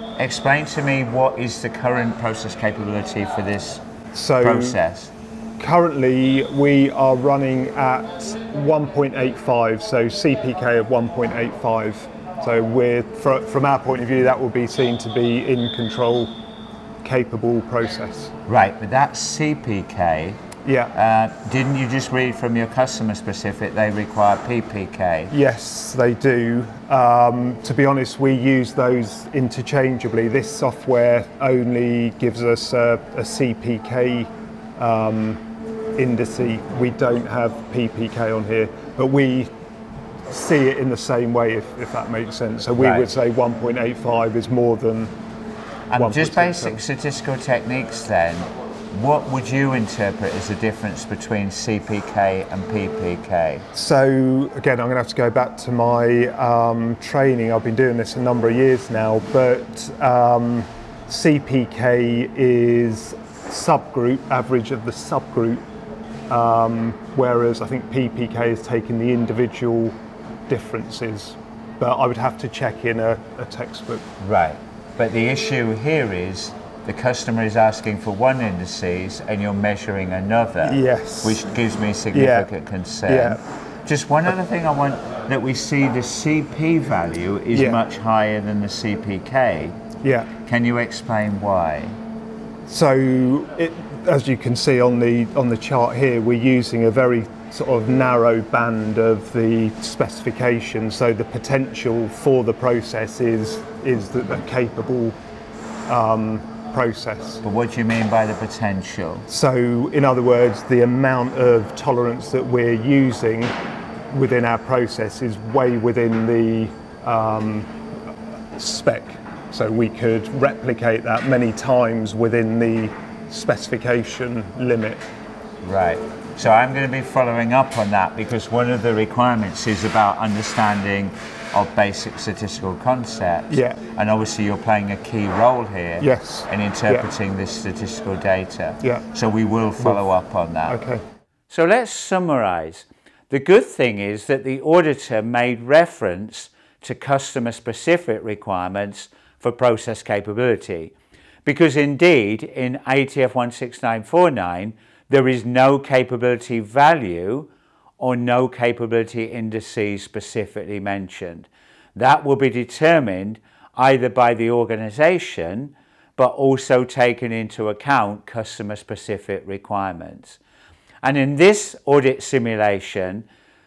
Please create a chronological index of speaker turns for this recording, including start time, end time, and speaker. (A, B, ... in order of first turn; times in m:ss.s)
0:00.2-0:03.8 A
0:04.1-0:04.8 B
0:04.4-0:05.1 A
0:05.6-0:16.3 B
0:17.0-0:18.3 B
0:18.5-0:20.4 A
0:20.6-0:20.9 B
0:20.9-0:25.3 A
0:25.3-0:35.4 B
0:36.0-0:39.5 B
0:40.3-0:45.1 B
0:42.8-0:43.1 A
0:45.9-0:53.7 A
0:45.9-0:46.8 B
0:53.7-1:05.6 B
1:06.3-1:10.0 B
1:10.5-1:14.1 B
1:14.2-1:29.8 A
1:20.6-1:21.4 B
1:22.1-1:22.5 B
1:23.1-1:23.4 B
1:27.5-1:27.8 B
1:30.0-1:30.3 B
1:30.4-1:32.0 A
1:32.7-1:45.2 B
1:45.9-1:47.4 B
1:47.4-1:49.3 A
1:49.3-1:53.5 B
1:54.1-1:57.7 B
1:58.6-2:05.0 B
2:05.6-2:20.8 A
2:13.5-2:13.8 B
2:16.0-2:17.1 B
2:20.7-2:21.0 B
2:21.5-2:30.9 A
2:31.4-2:37.5 A
2:38.0-2:50.4 A
2:51.0-2:53.2 A